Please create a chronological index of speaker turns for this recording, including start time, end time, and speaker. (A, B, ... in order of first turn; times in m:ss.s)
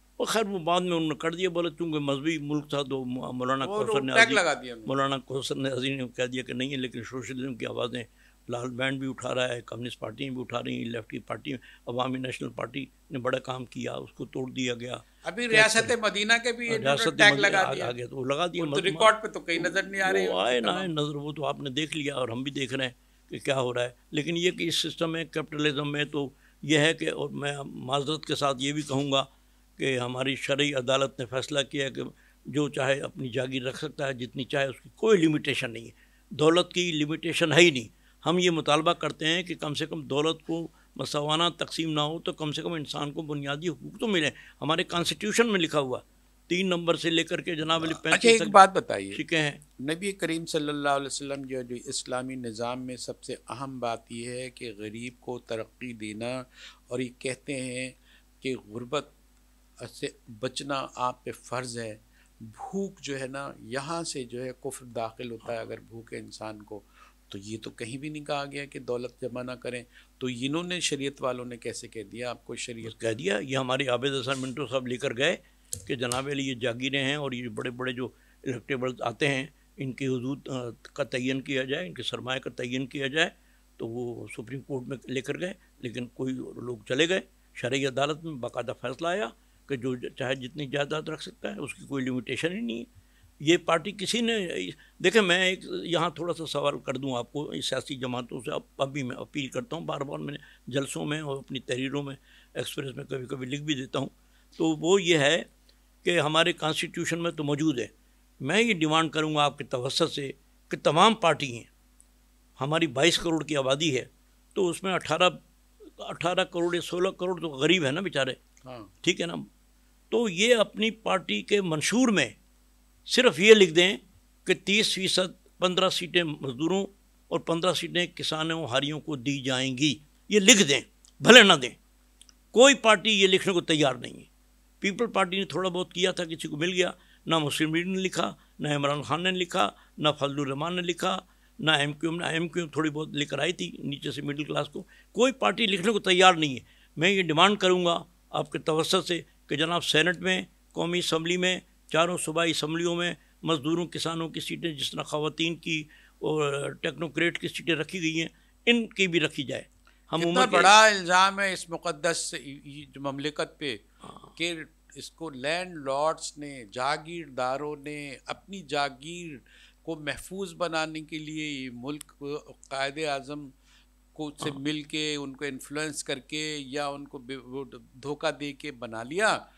0:00.2-0:15.9 A
0:03.6-0:04.9 B
0:15.2-0:17.9 B
0:16.7-0:48.6 A
0:18.6-0:20.9 B
0:47.8-0:49.2 B
0:49.1-0:49.6 A
0:49.8-0:59.1 B
0:59.8-1:13.0 B
1:12.8-1:32.9 A
1:33.4-1:45.4 A
1:46.0-1:51.7 A
1:52.6-1:58.4 A
1:58.6-1:58.9 B
1:59.0-1:59.5 A
2:00.1-2:02.3 A
2:03.1-2:11.8 A
2:12.5-2:14.3 A
2:14.8-2:40.7 A
2:40.2-2:43.8 B
2:44.4-2:53.5 B
2:54.1-2:59.4 B